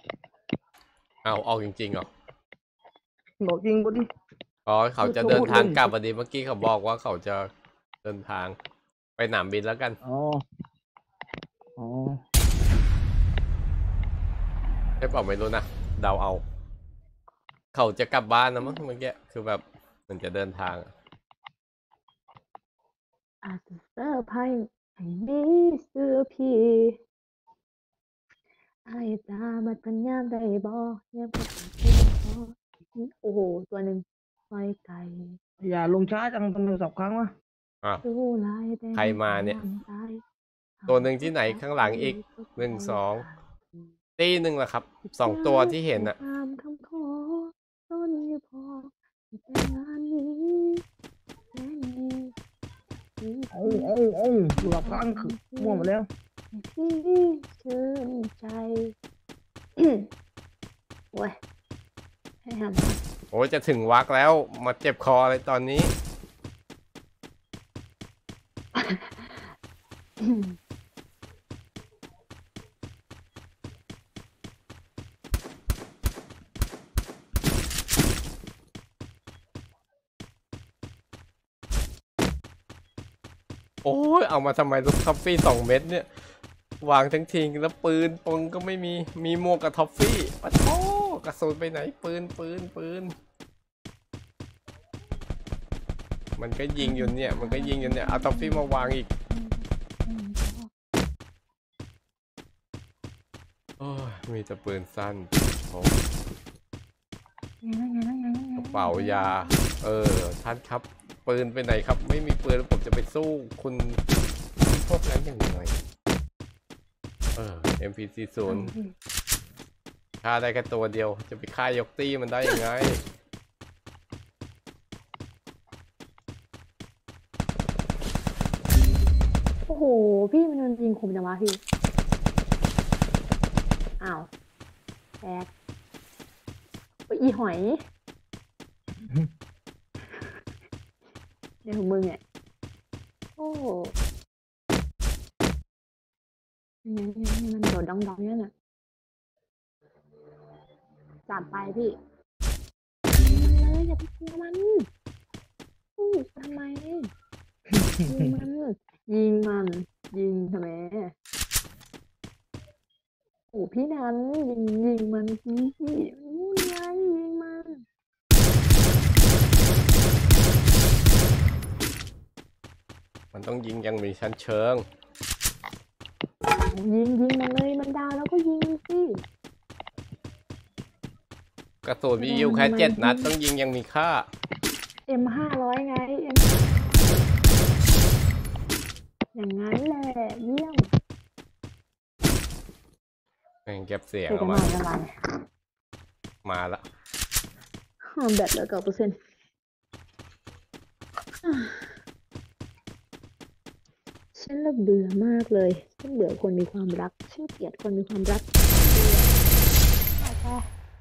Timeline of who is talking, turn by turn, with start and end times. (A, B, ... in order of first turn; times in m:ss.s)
0:01.2-0:02.1 A
0:03.4-0:04.1 B
0:04.7-0:07.5 A
0:05.0-0:05.9 C
0:05.2-0:05.8 B
0:08.0-0:08.6 A
0:09.2-0:10.0 A
0:10.0-0:10.4 B
0:11.8-0:12.2 B
0:15.0-0:16.4 A
0:17.7-0:20.9 A
0:23.4-0:27.0 C
0:28.9-0:35.4 C
0:35.6-0:37.3 B
0:38.0-0:40.2 C
0:39.0-0:39.6 A
0:40.8-0:43.9 C
0:40.9-0:43.2 A
0:44.2-0:46.2 A
0:45.0-0:50.8 C
0:51.5-0:52.3 C
0:53.2-0:53.9 C
0:53.5-0:56.1 B
0:54.6-0:55.9 C
0:56.5-0:59.0 C
0:59.8-1:00.1 C
1:01.1-1:01.4 C
1:02.5-1:03.0 C
1:03.3-1:05.9 A
1:08.8-1:09.5 C
1:10.2-1:10.6 C
1:23.8-1:26.1 A
1:26.8-1:33.1 A
1:36.4-1:39.1 A
1:36.8-1:40.7 C
1:43.8-1:46.0 A
1:47.6-1:49.7 C
1:48.6-1:54.0 A
1:54.7-1:55.8 A
1:57.4-1:58.7 A
1:58.4-1:59.0 C
2:00.2-2:03.0 A
2:09.7-2:11.6 C
2:14.0-2:14.3 C
2:15.2-2:15.5 C
2:17.1-2:17.8 C
2:21.6-2:22.2 C
2:23.4-2:24.0 C
2:26.8-2:28.5 C
2:31.3-2:31.9 C
2:33.1-2:34.9 C
2:36.0-2:37.1 C
2:37.7-2:38.0 B
2:38.1-2:41.1 C
2:43.5-2:47.8 C
2:53.3-2:54.8 A
2:56.7-2:59.2 C
3:01.8-3:04.3 A
3:02.2-3:03.3 C
3:05.1-3:07.2 C
3:09.4-3:10.8 C
3:13.7-3:14.7 A
3:14.3-3:15.1 C
3:16.4-3:16.8 A
3:18.1-3:19.2 C
3:21.4-3:22.0 C
3:24.4-3:29.3 C
3:30.2-3:30.7 C